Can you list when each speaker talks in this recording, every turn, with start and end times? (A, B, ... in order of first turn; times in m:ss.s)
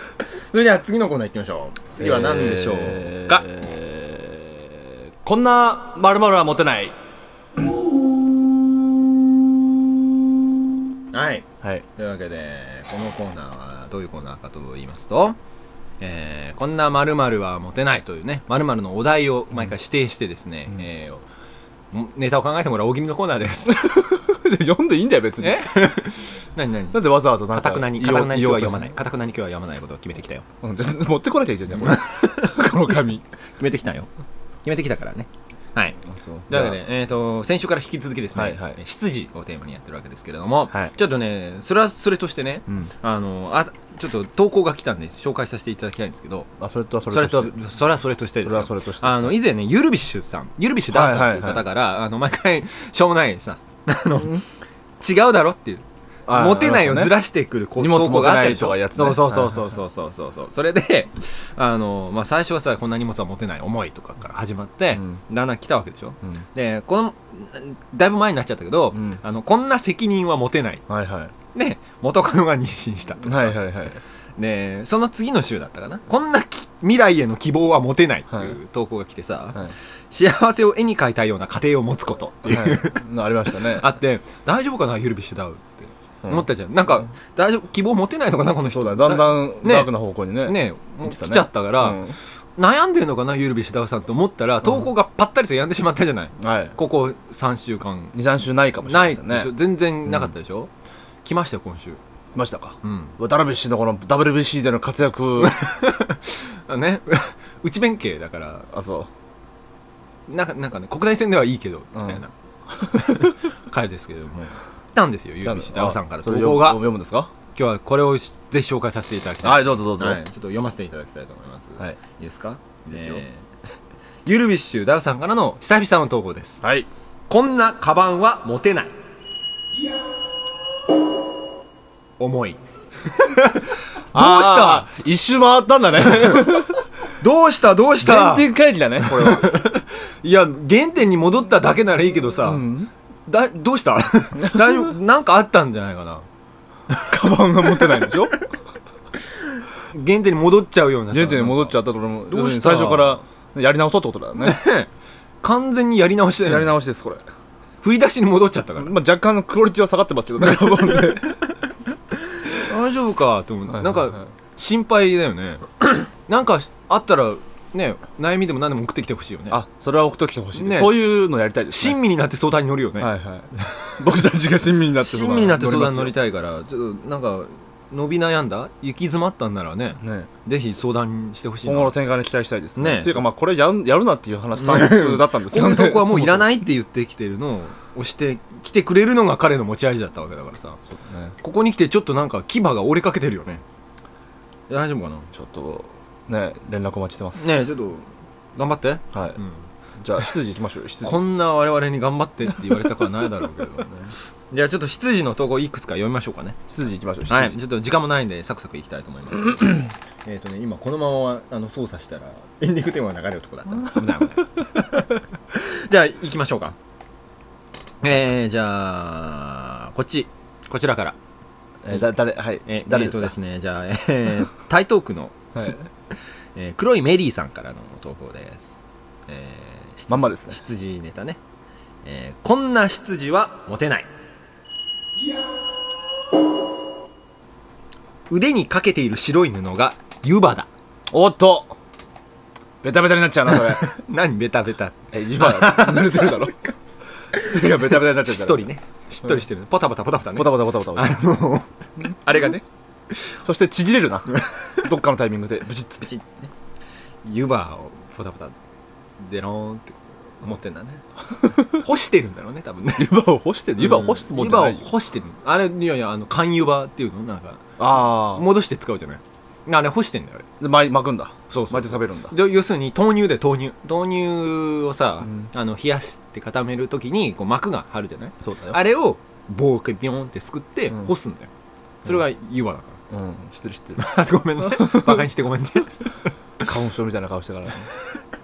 0:00.5-0:03.4 A
0:02.0-0:07.0 B
0:11.1-0:15.4 A
0:16.0-0:21.2 A
0:21.9-0:23.8 A
0:23.7-0:25.8 B
0:25.4-0:30.4 A
0:26.9-0:28.9 B
0:30.6-0:33.3 B
0:31.8-0:32.1 A
0:33.6-0:34.1 A
0:34.6-0:36.0 A
0:36.1-0:36.8 B
0:36.5-0:46.5 A
0:38.3-0:38.8 B
0:46.6-0:47.6 B
0:47.1-0:54.4 A
0:48.4-0:49.4 B
0:50.9-0:51.7 B
0:54.2-0:54.4 B
0:55.0-1:10.8 A
0:56.3-0:57.2 B
0:57.8-0:59.7 B
1:09.0-1:09.2 B
1:10.9-1:11.3 B
1:11.5-1:13.6 A
1:13.2-1:14.0 B
1:14.4-1:29.9 A
1:22.4-1:23.9 B
1:28.7-1:32.2 B
1:30.4-1:38.2 A
1:36.4-1:36.8 B
1:38.1-1:39.5 B
1:38.8-1:40.7 A
1:41.2-1:42.0 A
1:42.3-1:45.7 B
1:42.8-1:43.2 A
1:45.4-1:48.7 A
1:48.7-1:49.1 B
1:50.3-1:52.3 A
1:52.0-1:52.2 B
1:52.7-1:53.3 B
1:52.8-1:56.9 A
1:55.4-1:57.3 B
1:57.5-2:03.4 A
1:59.4-2:00.2 B
2:02.9-2:03.2 B
2:04.3-2:06.6 A
2:06.6-2:06.9 B
2:07.3-2:08.9 A
2:12.2-2:14.9 A
2:14.1-2:16.8 B
2:16.0-2:18.5 A
2:18.0-2:19.7 B
2:19.0-2:22.7 A
2:22.4-2:22.9 B
2:23.3-2:26.3 A
2:24.4-2:24.8 B
2:27.1-2:28.4 B
2:27.8-2:28.1 A
2:29.9-2:33.2 A
2:31.1-2:34.6 B
2:34.4-2:34.9 A
2:35.4-2:36.8 A
2:36.5-2:37.2 B
2:37.8-2:39.0 A
2:38.8-2:41.4 B
2:40.6-2:41.1 A
2:42.4-2:49.6 A
2:43.8-2:44.1 B
2:49.5-2:52.0 B
2:50.5-2:53.1 A
2:53.0-2:56.2 B
2:53.6-2:54.0 A
2:55.0-3:01.9 A
3:00.0-3:00.3 B
3:01.7-3:06.6 B
3:02.8-3:03.2 A
3:04.6-3:10.8 A
3:10.9-3:11.4 B
3:11.4-3:13.6 A
3:14.7-3:15.3 A
3:15.3-3:17.5 B
3:17.4-3:19.6 A
3:19.1-3:19.4 B
3:20.0-3:21.2 B
3:21.0-3:26.6 A
3:26.7-3:27.6 B
3:27.3-3:36.8 A
3:38.0-3:41.2 A
3:41.8-3:43.3 B
3:42.6-3:45.8 A
3:45.6-3:45.9 B
3:46.6-3:51.4 A
3:50.1-3:50.6 B
3:52.0-3:54.1 A
3:58.3-4:00.7 A
4:01.1-4:01.7 B
4:02.8-4:03.9 B
4:03.5-4:06.6 A
4:05.1-4:06.7 B
4:07.3-4:08.7 B
4:07.4-4:12.6 A
4:10.4-4:11.2 B
4:13.4-4:16.1 B
4:16.0-4:16.5 A
4:17.2-4:18.6 A
4:19.2-4:21.0 A
4:21.6-4:23.1 A
4:23.0-4:24.8 B
4:23.8-4:30.5 A
4:27.8-4:28.5 B
4:30.6-4:32.4 B
4:31.5-4:41.5 A
4:38.4-4:38.8 B
4:42.0-4:43.0 A
4:43.1-4:44.1 B
4:44.0-4:46.0 A
4:44.6-4:45.2 B
4:46.6-4:47.9 B